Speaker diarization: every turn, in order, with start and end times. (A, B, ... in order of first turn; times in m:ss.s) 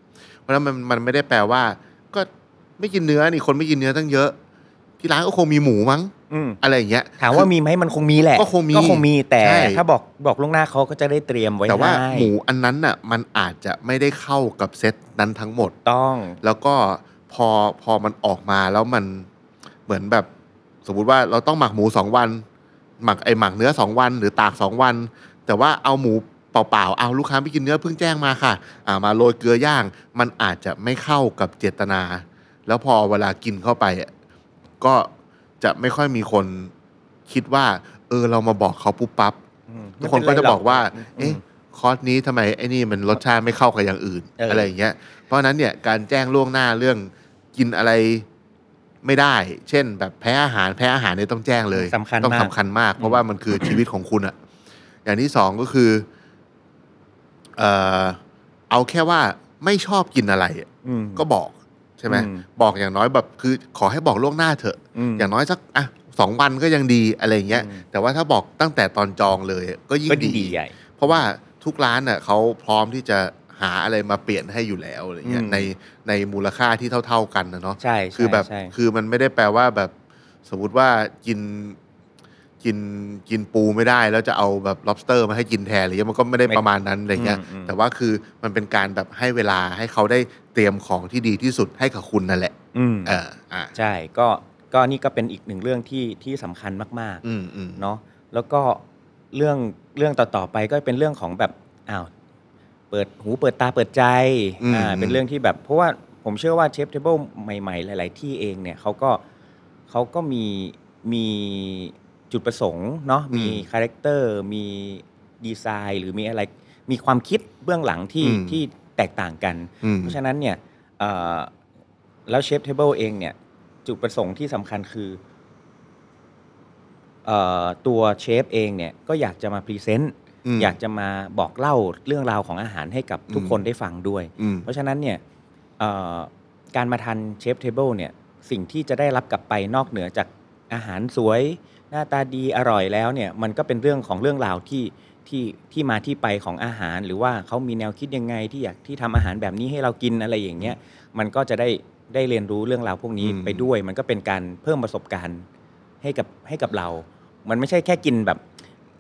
0:00.5-0:04.4 A
0:05.0-0:07.5 A
0:06.3-0:06.6 B
0:07.2-0:12.3 B
0:08.4-0:09.8 A
0:11.7-0:15.7 A
0:15.8-0:16.4 B
0:16.4-0:19.3 A
0:19.9-0:20.3 A
0:20.8-0:22.4 A
0:23.0-0:34.1 A
0:34.8-0:36.7 A
0:37.3-0:39.4 A
0:39.7-0:41.4 B
0:40.0-0:48.2 A
0:44.4-0:44.7 B
0:49.0-0:54.3 A
0:51.7-0:53.8 B
0:55.0-0:56.1 A
0:57.6-0:58.2 A
0:58.7-1:19.9 A
1:00.8-1:01.2 B
1:02.1-1:02.5 B
1:05.0-1:05.3 B
1:07.5-1:07.8 B
1:10.1-1:10.8 B
1:15.2-1:15.7 B
1:17.8-1:18.7 B
1:20.5-1:21.8 A
1:22.6-1:32.6 A
1:26.5-1:27.8 B
1:32.7-1:33.2 B
1:33.1-1:33.7 A
1:33.8-1:37.2 B
1:37.2-1:37.8 A
1:37.8-1:38.8 B
1:39.3-1:42.1 B
1:42.9-1:49.2 B
1:44.6-1:45.2 A
1:49.9-2:01.5 B
1:53.3-1:53.6 A
1:58.2-1:58.6 A
1:59.8-2:00.2 A
2:02.3-2:05.2 B
2:07.2-2:15.2 B
2:10.4-2:10.8 A
2:13.3-2:13.6 A
2:14.4-2:14.7 A
2:15.8-2:35.4 B
2:33.2-2:33.7 A
2:36.0-2:38.4 B